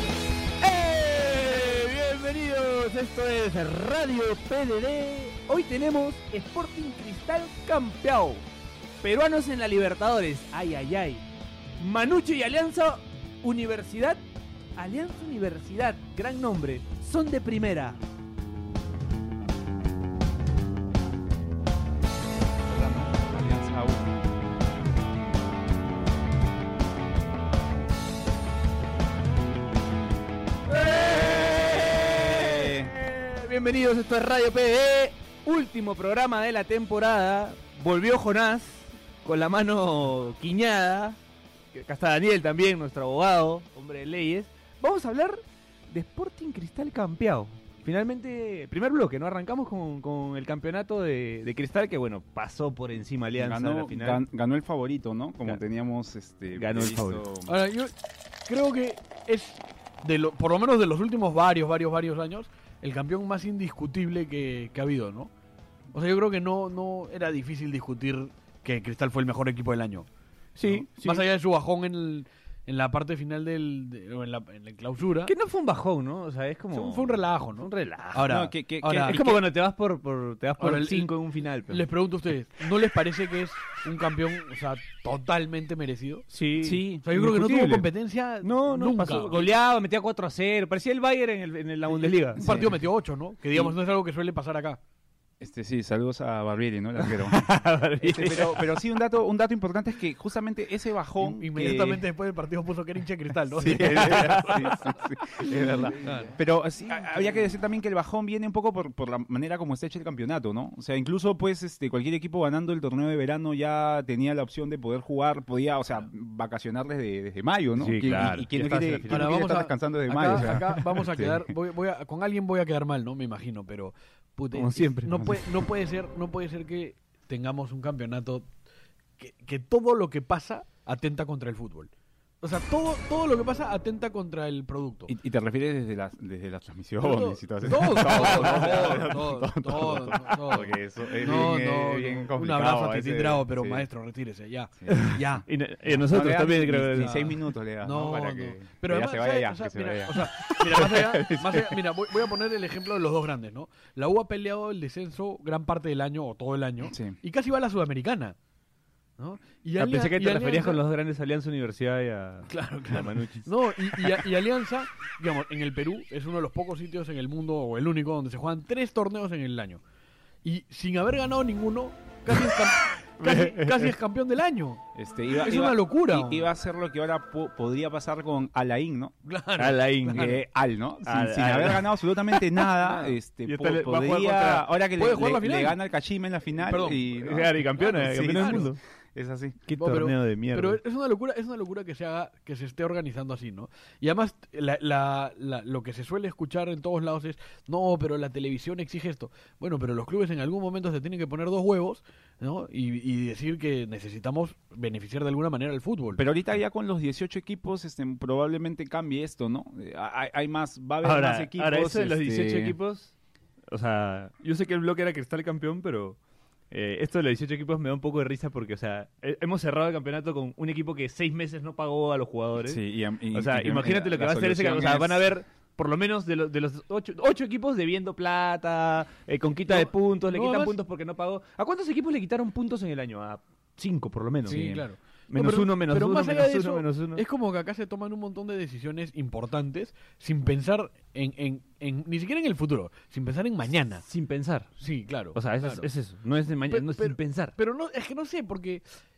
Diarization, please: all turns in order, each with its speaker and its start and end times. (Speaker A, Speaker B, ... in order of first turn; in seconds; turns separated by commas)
Speaker A: 0.6-8.4, Speaker A: 9.0-11.2, Speaker A: 11.8-14.2, Speaker A: 14.8-18.0, Speaker B: 22.6-24.2, Speaker A: 30.7-41.2, Speaker B: 31.2-32.9, Speaker A: 41.7-54.2, Speaker B: 53.3-57.5, Speaker A: 56.5-57.2, Speaker C: 57.5-57.9, Speaker C: 58.5-65.3, Speaker C: 65.9-70.1, Speaker A: 70.5-71.2, Speaker C: 70.7-75.3, Speaker A: 75.2-78.3, Speaker C: 76.7-79.2, Speaker B: 78.2-79.4, Speaker A: 79.0-81.9, Speaker C: 80.6-81.1, Speaker C: 81.7-86.3, Speaker A: 86.3-87.8, Speaker B: 86.6-87.7, Speaker C: 87.0-89.4, Speaker A: 88.4-92.5, Speaker C: 92.3-94.8, Speaker B: 92.4-92.7, Speaker B: 95.4-102.0, Speaker A: 97.0-98.7, Speaker C: 101.2-104.9, Speaker B: 103.5-121.5, Speaker A: 103.7-104.8, Speaker C: 105.9-106.4, Speaker A: 117.8-119.3, Speaker C: 119.1-128.5, Speaker A: 124.5-125.2, Speaker C: 129.2-135.1, Speaker B: 135.1-143.8, Speaker C: 137.0-145.4, Speaker A: 138.0-139.1, Speaker B: 144.8-145.1, Speaker A: 144.9-147.2, Speaker B: 146.1-150.1, Speaker C: 146.9-158.3, Speaker A: 150.8-151.2, Speaker B: 150.8-151.6, Speaker B: 156.8-157.2, Speaker C: 159.2-160.8, Speaker A: 159.8-164.2, Speaker C: 162.5-169.8, Speaker C: 170.4-176.5, Speaker A: 173.2-173.9, Speaker B: 174.9-179.2, Speaker C: 179.2-180.4, Speaker A: 179.6-180.4, Speaker B: 180.1-189.6, Speaker A: 181.0-182.6, Speaker A: 183.4-184.7, Speaker C: 184.9-185.8, Speaker C: 186.6-187.1, Speaker A: 187.2-188.8, Speaker C: 188.4-188.7, Speaker A: 189.7-190.8, Speaker C: 189.8-206.2, Speaker B: 206.1-212.8, Speaker A: 211.0-213.1, Speaker A: 213.7-216.2, Speaker A: 216.7-234.7, Speaker B: 222.6-225.2, Speaker C: 229.7-230.7, Speaker B: 234.4-234.8, Speaker C: 234.4-244.0, Speaker A: 235.3-237.2, Speaker A: 244.0-244.7, Speaker C: 244.8-245.9, Speaker A: 245.3-247.5, Speaker C: 246.7-248.8